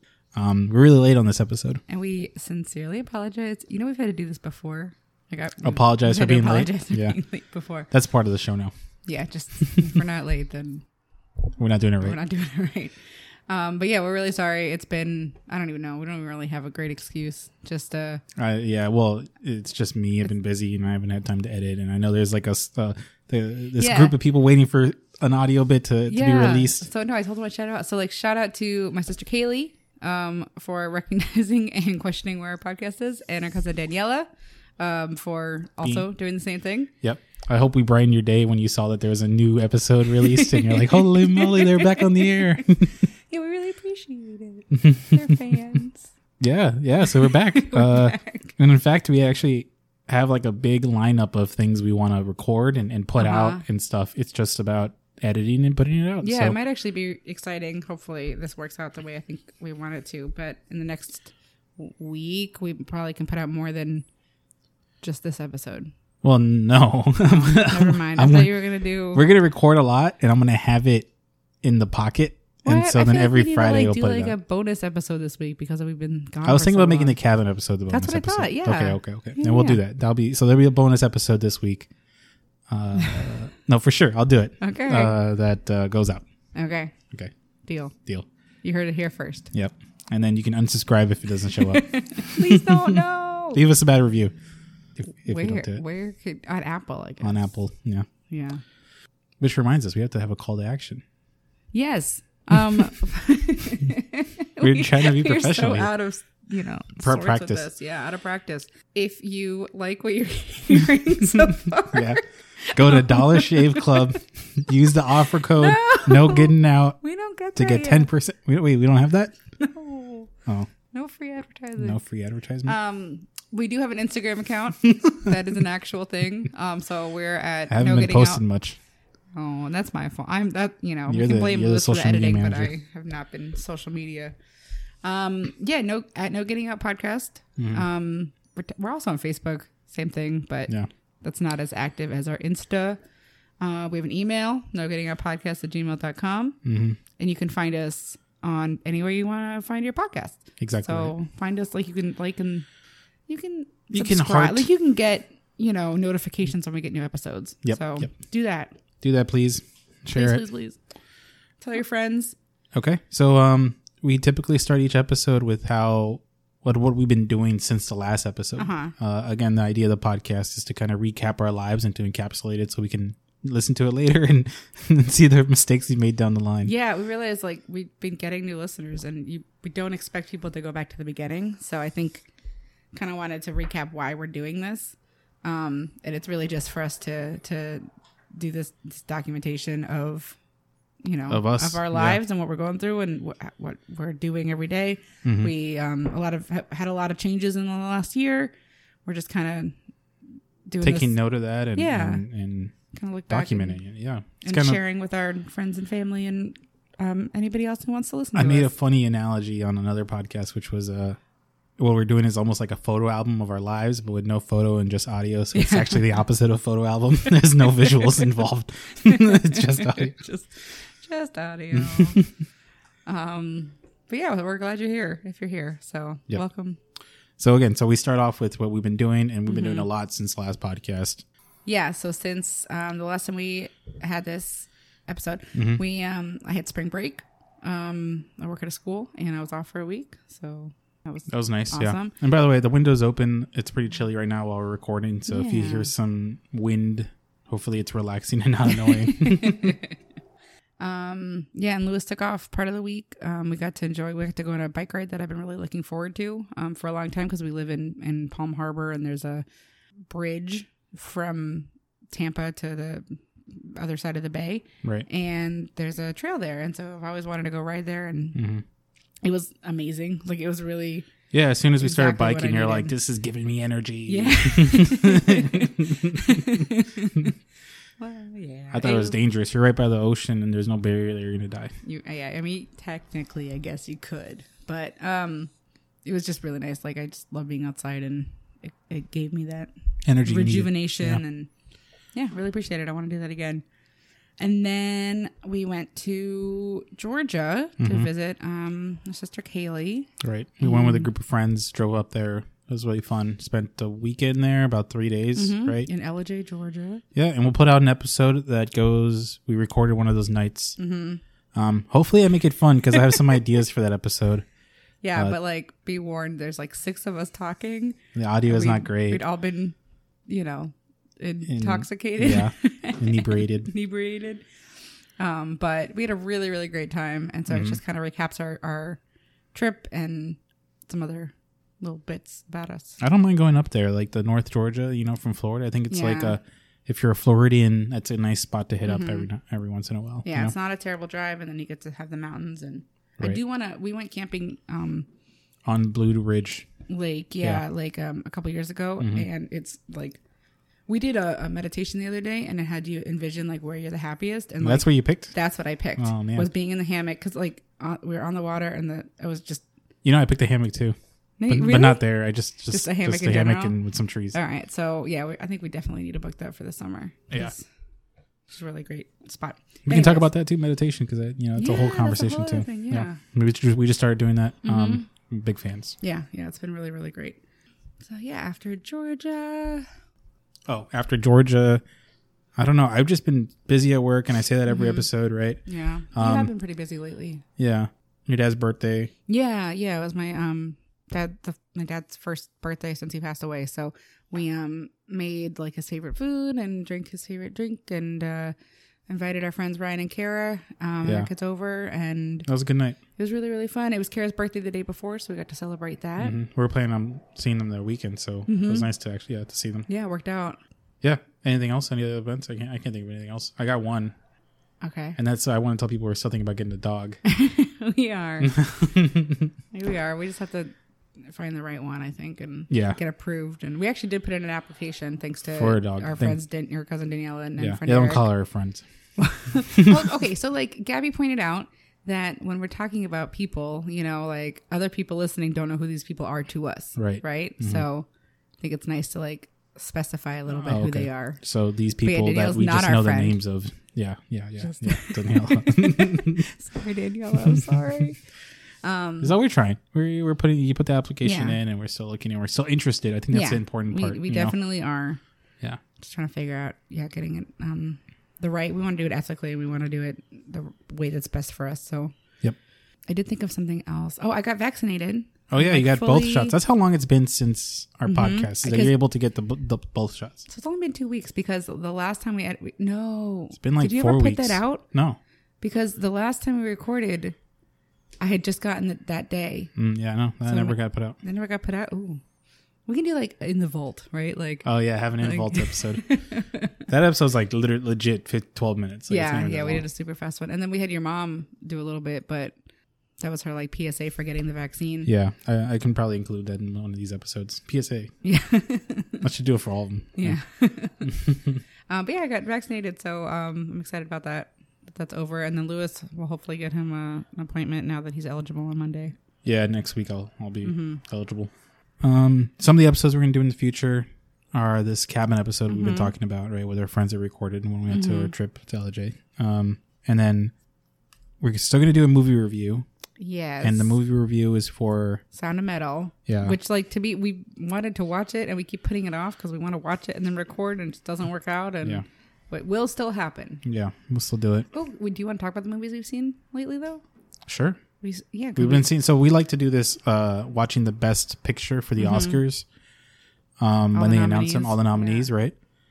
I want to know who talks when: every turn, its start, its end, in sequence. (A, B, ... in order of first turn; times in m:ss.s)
0:00.3-0:01.8 A
0:01.9-0:07.9 B
0:05.6-0:07.2 A
0:07.9-0:08.7 A
0:09.0-0:10.8 B
0:11.6-0:12.2 A
0:12.0-0:12.9 B
0:13.5-0:18.2 B
0:18.4-0:26.9 A
0:23.8-0:24.2 B
0:26.1-0:36.9 B
0:37.0-0:43.0 A
0:40.3-0:46.1 B
0:44.8-0:45.4 A
0:46.4-0:56.6 A
0:47.0-0:48.5 B
0:53.2-0:53.6 B
0:56.2-1:04.0 B
1:05.0-1:05.9 B
1:06.2-1:11.1 A
1:07.2-1:09.3 B
1:11.6-1:14.4 A
1:12.6-1:17.2 B
1:16.4-1:21.9 A
1:17.9-1:19.8 B
1:22.7-1:26.2 A
1:24.6-1:25.2 B
1:26.5-1:26.9 B
1:27.6-1:27.9 B
1:28.6-1:29.5 B
1:29.5-1:34.3 A
1:31.6-1:33.6 B
1:35.0-1:35.8 A
1:35.3-1:37.5 B
1:37.2-1:38.0 A
1:38.3-1:38.6 B
1:39.4-1:41.0 A
1:41.7-1:54.2 B
1:44.6-1:45.9 A
1:47.0-1:47.7 A
1:51.3-1:52.2 A
1:52.7-1:57.0 A
1:55.4-1:58.1 B
1:57.6-1:59.4 A
1:59.6-2:00.3 B
2:00.9-2:02.0 B
2:01.8-2:02.8 A
2:02.6-2:08.4 B
2:07.7-2:08.8 A
2:09.3-2:14.4 B
2:11.1-2:12.7 A
2:15.0-2:23.0 B
2:17.6-2:17.8 A
2:23.6-2:26.6 B
2:26.6-2:27.0 A
2:27.2-2:32.7 B
2:30.6-2:31.1 A
2:33.3-2:38.8 B
2:33.9-2:34.7 A
2:37.6-2:38.1 A
2:39.0-2:40.4 A
2:40.1-2:40.8 B
2:41.6-2:42.4 B
2:42.7-2:56.7 A
2:48.6-2:48.9 B
2:56.6-3:02.2 B
3:02.9-3:10.4 B
3:11.0-3:18.5 B
3:11.3-3:12.2 A
3:15.2-3:15.5 A
3:19.0-3:19.8 B
3:20.6-3:21.2 B
3:20.8-3:22.7 A
3:21.7-3:22.2 B
3:22.9-3:23.8 B
3:23.3-3:24.8 A
3:24.4-3:28.7 B
3:28.3-3:31.2 A
3:31.8-3:40.2 A
3:35.5-3:36.1 B
3:37.7-3:38.3 B
3:39.0-3:42.2 B
3:41.8-3:42.3 A
3:43.0-3:46.8 B
3:47.4-3:51.2 A
3:49.5-3:49.9 B
3:51.6-4:02.1 B
3:55.5-3:55.8 A
4:01.3-4:09.8 A
4:05.3-4:05.9 B
4:08.7-4:10.0 B
4:10.8-4:19.4 B
4:20.1-4:28.4 B
4:28.3-4:28.6 A
4:29.2-4:31.1 B
4:31.3-4:36.5 A
4:31.8-4:32.9 B
4:34.0-4:37.3 B
4:38.0-4:39.2 B
4:38.7-4:41.7 A
4:41.8-4:45.5 B
4:46.0-4:51.5 B
4:50.0-4:51.2 A
4:52.1-4:53.6 B
4:54.4-5:00.1 B
4:57.8-4:58.1 A
5:00.2-5:05.9 A
5:00.6-5:01.1 B
5:05.3-5:07.0 B
5:07.1-5:10.8 A
5:10.8-5:11.2 B
5:11.5-5:14.4 A
5:15.0-5:19.7 B
5:18.1-5:19.2 A
5:20.3-5:24.4 B
5:21.5-5:23.7 A
5:25.2-5:29.0 B
5:27.5-5:27.8 A
5:29.5-5:33.0 B
5:33.0-5:40.5 A
5:35.9-5:36.4 B
5:38.8-5:39.3 B
5:40.2-5:45.1 B
5:45.6-5:46.7 A
5:46.9-5:50.2 B
5:49.0-5:49.3 A
5:50.9-5:59.6 B
5:54.6-5:55.3 A
5:56.0-5:56.5 A
6:00.0-6:01.0 A
6:01.4-6:02.1 B
6:01.5-6:04.4 A
6:02.7-6:03.8 B
6:04.3-6:07.6 B
6:08.5-6:10.2 B
6:09.9-6:16.0 A
6:11.5-6:13.2 B
6:14.6-6:15.0 B
6:16.0-6:17.4 B
6:18.0-6:19.8 B
6:20.7-6:21.8 A
6:22.6-6:25.6 A
6:24.7-6:25.1 B
6:25.6-6:27.4 B
6:26.1-6:26.5 A
6:27.6-6:29.1 A
6:29.3-6:38.5 B
6:39.1-6:42.5 B
6:41.0-6:41.3 A
6:42.5-6:43.0 A
6:43.2-6:46.4 B
6:46.2-6:49.9 A
6:48.5-6:48.8 B
6:49.9-6:50.6 B
6:51.0-6:54.1 A
6:54.8-6:55.2 B
6:55.2-6:57.2 A
6:57.2-6:58.6 B
6:58.4-6:59.5 A
6:59.7-7:08.3 B
7:02.7-7:03.0 A
7:05.5-7:06.4 A
7:07.6-7:08.8 A
7:09.2-7:18.1 B
7:09.8-7:10.0 A
7:17.0-7:17.8 A
7:18.6-7:21.4 B
7:20.6-7:26.4 A
7:22.0-7:23.4 B
7:24.6-7:28.2 B
7:28.8-7:29.4 B
7:29.2-7:34.6 A
7:31.2-7:31.6 B
7:33.3-7:35.2 B
7:36.0-7:42.1 B
7:43.1-7:46.6 B
7:45.5-7:50.4 A
7:48.0-7:48.9 B
7:50.5-7:54.8 B
7:53.6-7:55.2 A
7:55.6-7:57.4 B
7:58.2-7:59.7 B
7:59.8-8:01.2 A
8:00.4-8:02.2 B
8:02.9-8:06.7 B
8:04.6-8:06.0 A
8:06.9-8:09.8 A
8:09.1-8:12.6 B
8:13.2-8:15.1 B
8:15.0-8:18.1 A
8:18.2-8:19.2 B
8:19.2-8:20.4 A
8:20.2-8:21.2 B
8:21.0-8:21.6 A
8:21.9-8:29.1 B
8:29.4-8:31.5 A
8:30.6-8:31.0 B
8:32.0-8:40.5 A
8:35.7-8:36.1 B
8:37.9-8:38.3 B
8:41.4-8:42.8 A
8:43.2-8:44.0 B
8:43.6-8:45.2 A
8:45.3-8:53.6 B
8:46.3-8:46.6 A
8:53.6-8:54.7 A
8:54.7-8:57.0 B
8:57.5-8:57.8 A
8:58.0-8:58.8 B
8:58.6-9:02.6 A
9:02.0-9:02.4 B
9:03.6-9:05.5 A
9:03.9-9:05.3 B